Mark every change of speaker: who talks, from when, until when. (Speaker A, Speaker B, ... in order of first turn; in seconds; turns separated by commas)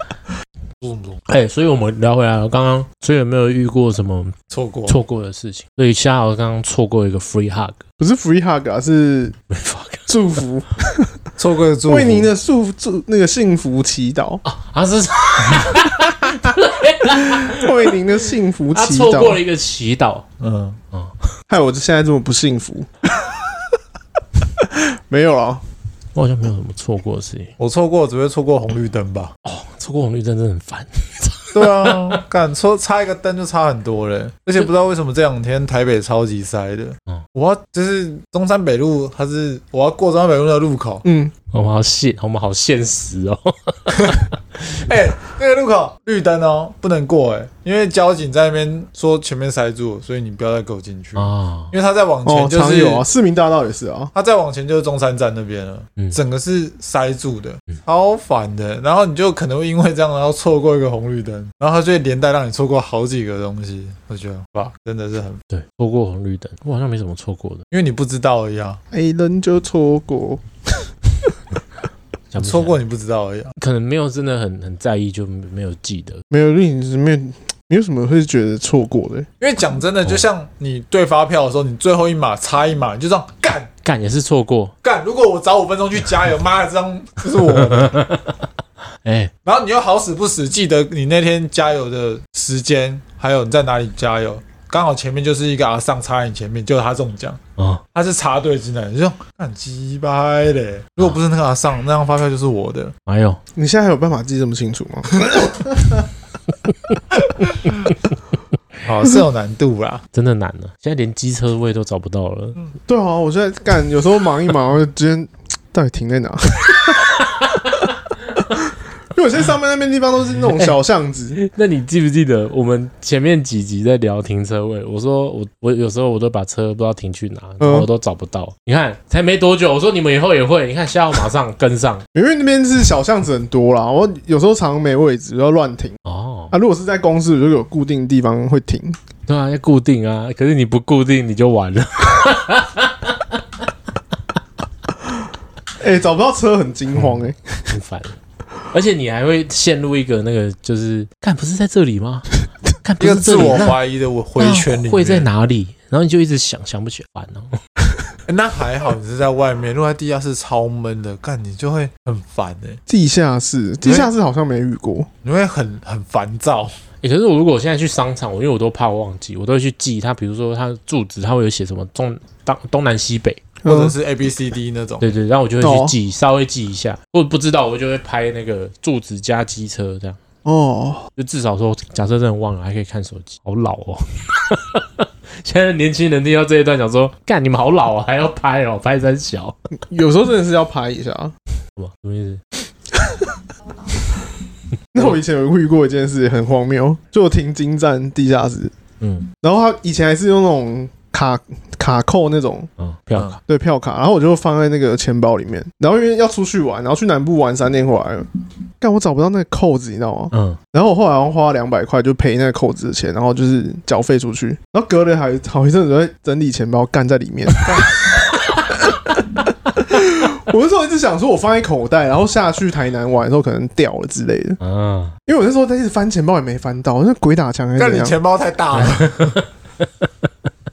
Speaker A: 0.8-1.2, Speaker B: 1.3-4.3, Speaker A: 4.5-5.0, Speaker B: 4.9-7.8, Speaker C: 8.0-9.4, Speaker B: 9.5-10.1, Speaker C: 10.1-11.1, Speaker A: 11.4-12.3, Speaker C: 11.9-14.4, Speaker B: 14.4-18.0, Speaker C: 17.1-19.4, Speaker B: 18.7-20.2, Speaker A: 20.4-20.8, Speaker C: 21.5-22.9, Speaker C: 24.6-25.6, Speaker B: 26.1-27.5, Speaker A: 27.6-29.3, Speaker B: 29.4-32.1, Speaker A: 31.5-41.0, Speaker C: 41.0-41.3, Speaker B: 41.5-44.8, Speaker A: 44.9-53.0, Speaker B: 51.1-51.7, Speaker C: 52.2-54.1, Speaker A: 54.1-65.4, Speaker B: 65.5-67.7, Speaker A: 67.7-68.8, Speaker C: 68.9-70.4, Speaker B: 72.3-72.8, Speaker A: 72.4-73.5, Speaker B: 73.6-76.2, Speaker C: 76.3-79.3, Speaker A: 79.4-83.7, Speaker B: 83.8-84.7, Speaker A: 84.8-88.0, Speaker B: 87.4-88.4, Speaker B: 89.0-89.3, Speaker A: 89.4-97.4, Speaker B: 97.6-97.8, Speaker A: 97.9-102.9, Speaker B: 103.0-103.4, Speaker C: 103.5-106.0, Speaker A: 107.4-107.8, Speaker A: 108.8-110.0, Speaker B: 110.1-112.6, Speaker C: 112.9-117.1, Speaker C: 119.1-121.4, Speaker B: 121.3-132.0, Speaker C: 127.6-127.9, Speaker C: 132.1-136.0, Speaker B: 136.0-136.5, Speaker C: 136.5-139.0, Speaker B: 139.3-143.4, Speaker C: 145.8-147.7, Speaker B: 147.7-148.2, Speaker B: 148.7-153.8, Speaker A: 153.0-155.3, Speaker B: 154.4-157.6, Speaker A: 158.2-162.8, Speaker C: 162.9-165.1, Speaker A: 163.8-164.1, Speaker A: 165.2-166.7, Speaker B: 167.0-173.4, Speaker C: 173.6-173.9, Speaker A: 173.7-175.1, Speaker B: 175.0-180.2, Speaker C: 175.6-175.9, Speaker C: 180.4-181.1, Speaker B: 181.2-189.6, Speaker C: 189.9-191.3, Speaker B: 191.8-192.4, Speaker C: 194.9-198.7, Speaker B: 199.0-199.3, Speaker C: 199.4-202.7, Speaker B: 202.8-203.3, Speaker C: 203.4-208.3, Speaker C: 208.8-217.9, Speaker B: 210.3-210.6, Speaker C: 219.8-224.6, Speaker B: 224.6-225.2, Speaker C: 225.2-228.2, Speaker A: 227.8-229.4, Speaker B: 228.8-229.4